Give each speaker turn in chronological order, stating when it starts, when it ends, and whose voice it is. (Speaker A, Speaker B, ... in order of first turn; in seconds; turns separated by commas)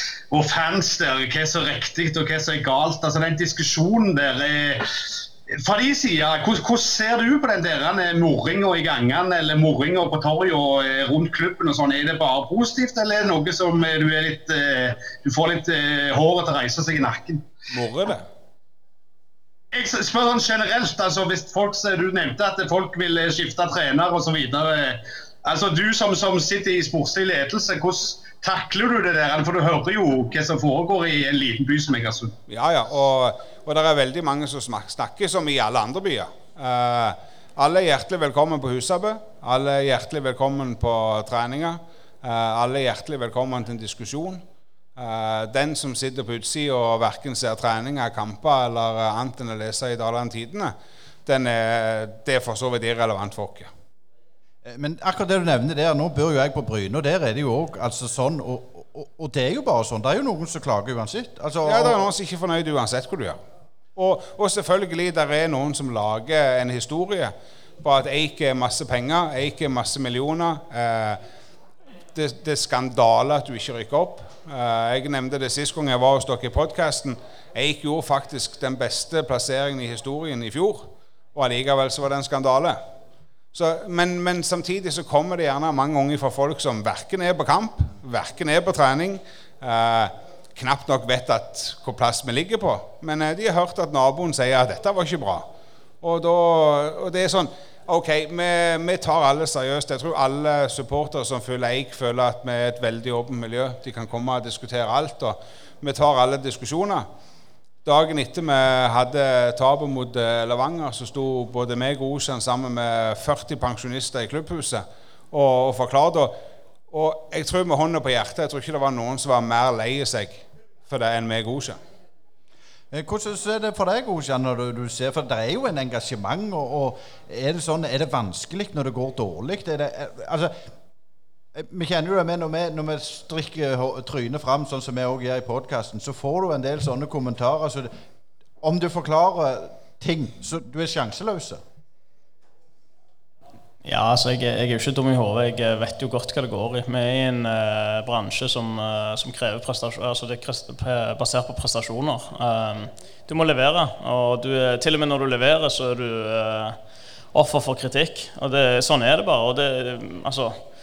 Speaker A: 0.3-4.9, Speaker A: 5.5-17.5, Speaker B: 17.7-18.2, Speaker A: 19.7-32.4, Speaker B: 32.5-44.4, Speaker B: 45.0-50.7, Speaker B: 51.2-53.7, Speaker C: 54.6-62.0, Speaker B: 61.6-63.4, Speaker B: 64.0-71.2, Speaker B: 72.1-82.8, Speaker B: 83.5-95.5, Speaker B: 96.0-107.1, Speaker B: 107.8-116.3, Speaker B: 116.9-121.8, Speaker C: 122.9-130.5, Speaker C: 131.5-137.9, Speaker C: 138.6-141.6, Speaker D: 143.8-156.8, Speaker D: 157.3-160.6